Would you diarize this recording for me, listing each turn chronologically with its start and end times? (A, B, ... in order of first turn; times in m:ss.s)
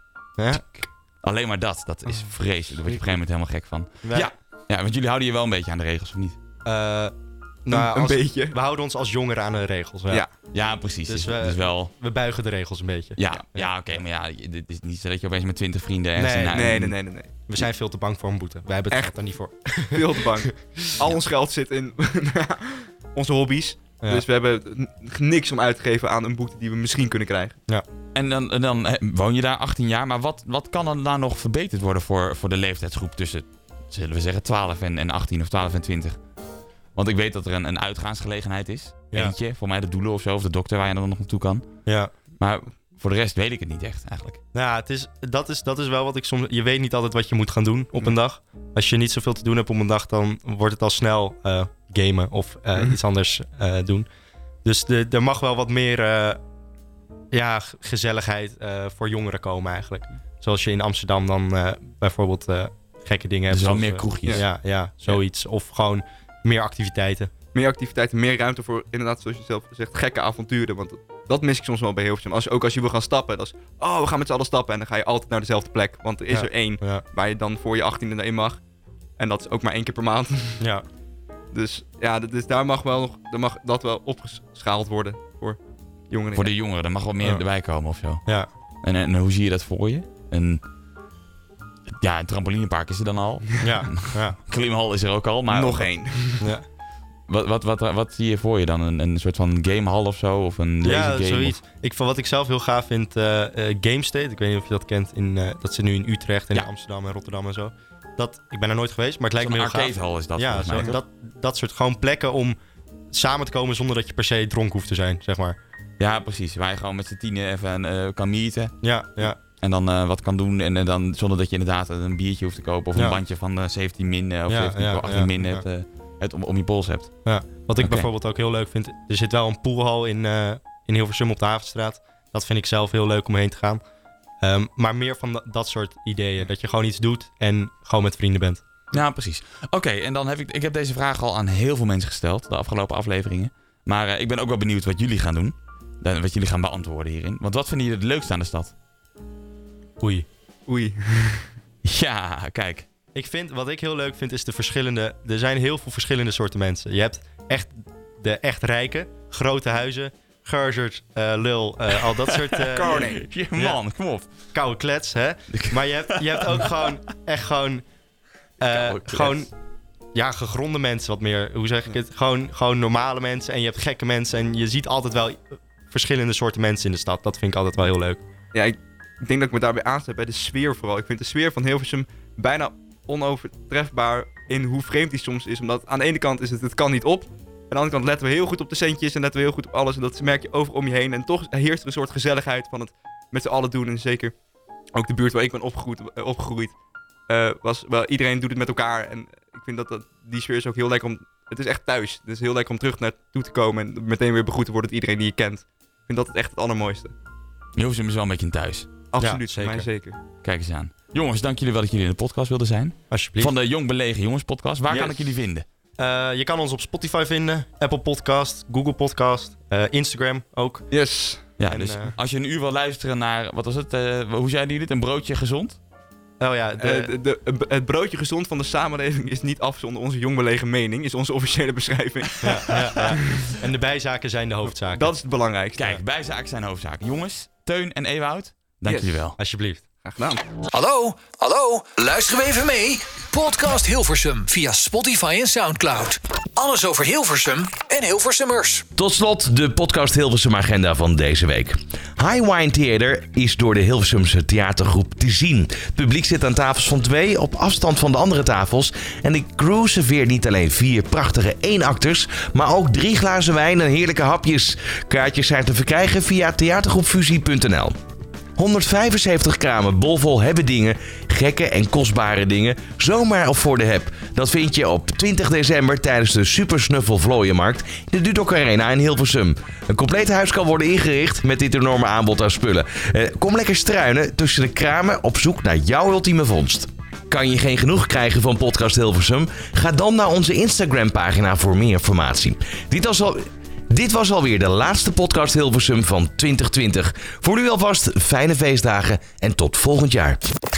0:00.4-0:00.6 A
0:00.5-0:06.4 B
0:04.0-0:04.3 A
0:06.6-0:07.1 A
0:07.6-0:10.2 A
0:07.7-0:08.6 C
0:10.5-0:11.9 B
0:11.1-0:13.7 A
0:13.2-0:17.0 B
0:16.2-0:16.8 A
0:16.5-0:17.3 C
0:17.4-0:20.8 A
0:19.9-0:27.6 C
0:24.0-0:24.2 A
0:28.2-0:36.2 B
0:37.0-0:41.6 B
0:41.9-0:42.1 A
0:42.4-0:44.4 B
0:44.5-0:54.1 A
0:54.6-0:56.4 A
0:57.3-1:07.3 A
1:03.5-1:04.4 B
1:07.5-1:18.6 C
1:16.3-1:17.0 A
1:19.2-1:20.6 C
1:21.5-1:26.5 C
1:26.4-1:28.2 B
1:28.8-1:30.6 B
1:32.0-1:35.9 B
1:33.6-1:34.4 A
1:35.5-1:36.4 C
1:37.3-1:41.6 B
1:40.8-1:52.6 A
1:49.4-1:51.0 B
1:53.1-1:55.6 A
1:56.0-2:08.1 B
1:58.8-1:59.4 A
2:04.5-2:05.6 A
2:07.2-2:13.8 A
2:14.4-2:18.6 A
2:18.9-2:28.7 B
2:30.0-2:30.3 A
2:30.7-2:31.5 C
2:31.8-2:32.9 B
2:33.2-2:43.8 A
2:42.2-2:44.3 B
2:42.9-2:43.2 C
2:44.5-2:47.8 A
2:45.5-2:46.7 B
2:48.6-2:49.5 A
2:48.7-2:49.4 B
2:50.1-2:58.2 A
2:58.5-3:14.4 C
3:14.9-3:16.8 C
3:17.3-3:27.1 C
3:27.8-3:28.9 B
3:29.1-3:30.2 C
3:29.2-3:29.9 A
3:30.4-3:35.7 B
3:33.1-3:33.5 A
3:34.9-3:35.2 A
3:36.0-3:40.9 A
3:40.9-3:41.5 C
3:41.6-3:45.8 B
3:41.7-3:42.1 A
3:46.4-3:47.1 A
3:46.8-3:53.5 C
3:52.4-3:55.1 A
3:54.9-3:55.8 C
3:55.8-3:59.4 B
3:58.8-3:59.3 C
3:59.4-3:59.9 A
4:00.0-4:00.4 C
4:00.7-4:08.8 D
4:09.0-4:28.0 E
4:28.6-5:00.4 E